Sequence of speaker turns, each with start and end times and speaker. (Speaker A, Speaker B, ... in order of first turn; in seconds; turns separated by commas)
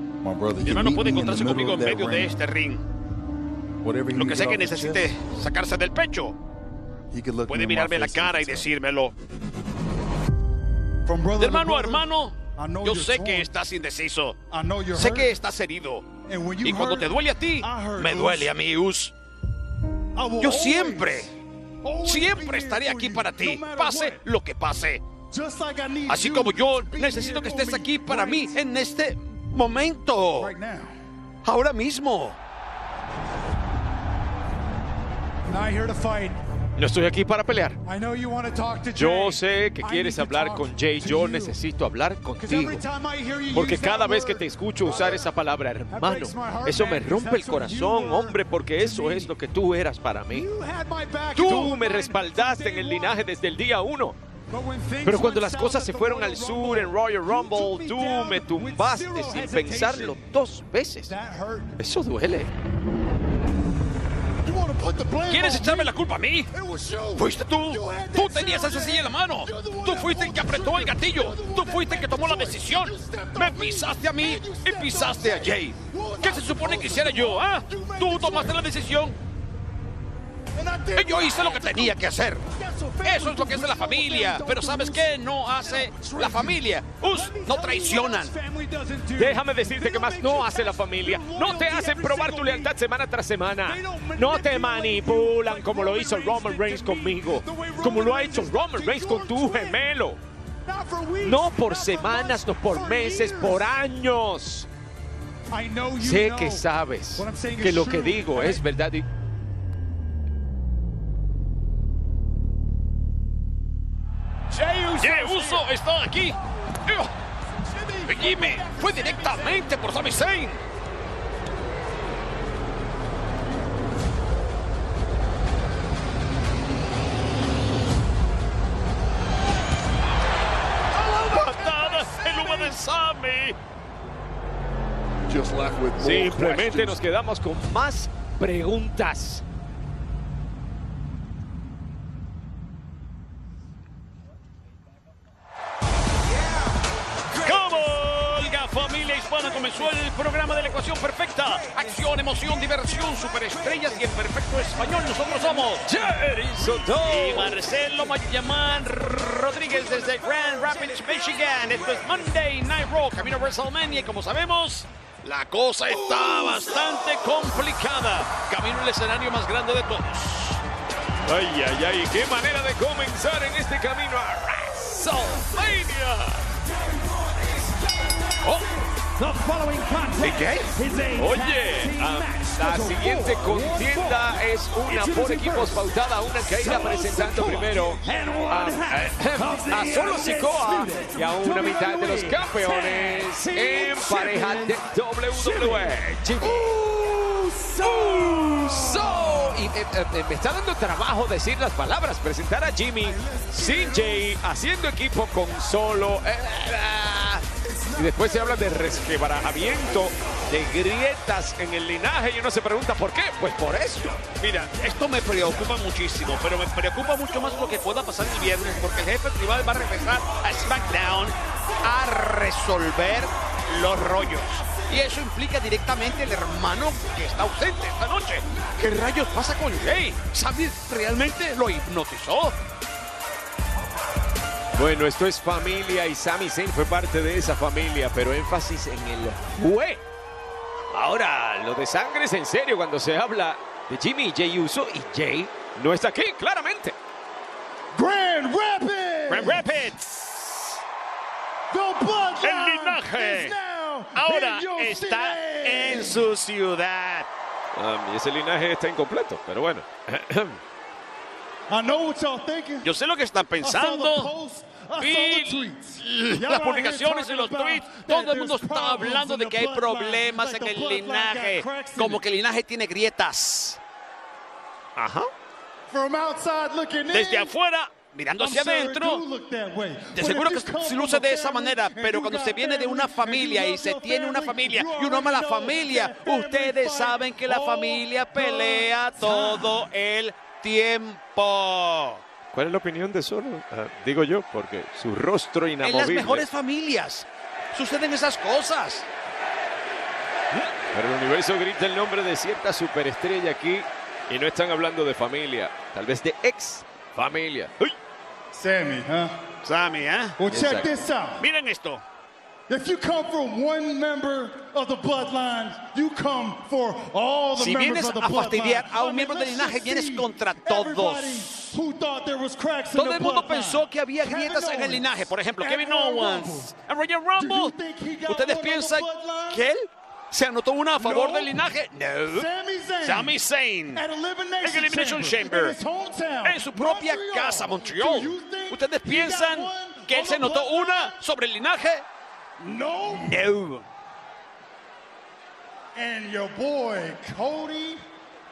Speaker A: 0.2-2.3, Speaker B: 0.6-2.8, Speaker A: 3.8-5.1, Speaker B: 4.1-6.4, Speaker A: 7.1-8.7, Speaker B: 7.5-9.1, Speaker C: 11.0-13.5, Speaker B: 11.4-14.4, Speaker C: 14.5-15.3, Speaker B: 14.9-16.1, Speaker C: 16.3-18.5, Speaker B: 16.6-19.1, Speaker C: 20.1-21.2, Speaker B: 20.4-21.3, Speaker C: 21.8-24.2, Speaker B: 22.0-25.0, Speaker C: 25.3-28.6, Speaker B: 26.1-30.5, Speaker C: 30.4-30.9, Speaker B: 31.4-32.4, Speaker C: 35.5-36.4, Speaker D: 36.8-37.8, Speaker C: 37.8-41.6, Speaker D: 39.0-42.8, Speaker C: 42.4-45.3, Speaker D: 43.5-50.5, Speaker C: 45.9-49.3, Speaker C: 50.3-53.2, Speaker D: 51.4-54.2, Speaker C: 54.5-60.2, Speaker D: 55.0-61.1, Speaker C: 61.0-61.8, Speaker D: 61.8-62.5, Speaker C: 64.4-66.0, Speaker B: 65.3-66.5, Speaker C: 66.5-78.7, Speaker B: 67.2-79.2, Speaker C: 80.5-92.8, Speaker B: 81.0-82.5, Speaker B: 83.0-88.3, Speaker D: 89.2-100.2, Speaker C: 93.6-99.9, Speaker C: 100.7-103.7, Speaker D: 101.2-104.7, Speaker C: 105.5-108.6, Speaker D: 106.0-109.0, Speaker C: 114.5-115.6, Speaker B: 115.0-117.1, Speaker C: 117.6-119.7, Speaker B: 118.0-120.6, Speaker B: 130.9-133.6, Speaker C: 131.2-132.8, Speaker A: 135.3-137.0, Speaker D: 136.0-139.4, Speaker B: 147.4-155.9, Speaker D: 155.8-157.6, Speaker B: 157.0-170.6, Speaker D: 171.2-176.4, Speaker C: 179.2-185.8, Speaker B: 180.2-180.7, Speaker D: 181.1-196.8, Speaker C: 186.6-199.3, Speaker D: 197.8-214.2, Speaker C: 203.0-204.4, Speaker C: 207.9-208.6, Speaker B: 214.3-232.6, Speaker D: 234.8-240.0, Speaker D: 240.9-246.9, Speaker C: 247.9-249.7, Speaker B: 249.3-250.8, Speaker C: 251.7-256.2, Speaker B: 252.4-253.6, Speaker B: 254.1-257.3, Speaker D: 257.8-260.6, Speaker C: 261.7-262.9, Speaker B: 262.8-264.3, Speaker C: 263.6-272.2, Speaker B: 265.0-273.8, Speaker B: 274.9-275.3, Speaker C: 275.9-277.5, Speaker B: 277.1-279.2, Speaker C: 278.4-289.8, Speaker B: 280.1-292.2, Speaker D: 292.5-296.4, Speaker B: 295.8-299.1, Speaker D: 300.5-307.9, Speaker C: 308.5-309.4, Speaker B: 309.6-310.4, Speaker C: 310.4-311.4, Speaker D: 310.5-310.9, Speaker B: 311.4-312.0, Speaker C: 312.7-326.7, Speaker B: 317.6-321.8, Speaker B: 322.9-327.8, Speaker C: 327.4-329.7, Speaker B: 328.3-332.5, Speaker C: 331.0-331.6, Speaker C: 332.3-333.4, Speaker B: 333.0-334.0, Speaker C: 333.9-341.2, Speaker B: 334.6-335.8, Speaker B: 336.4-342.1, Speaker C: 342.6-343.5, Speaker B: 343.1-343.9, Speaker C: 345.9-348.1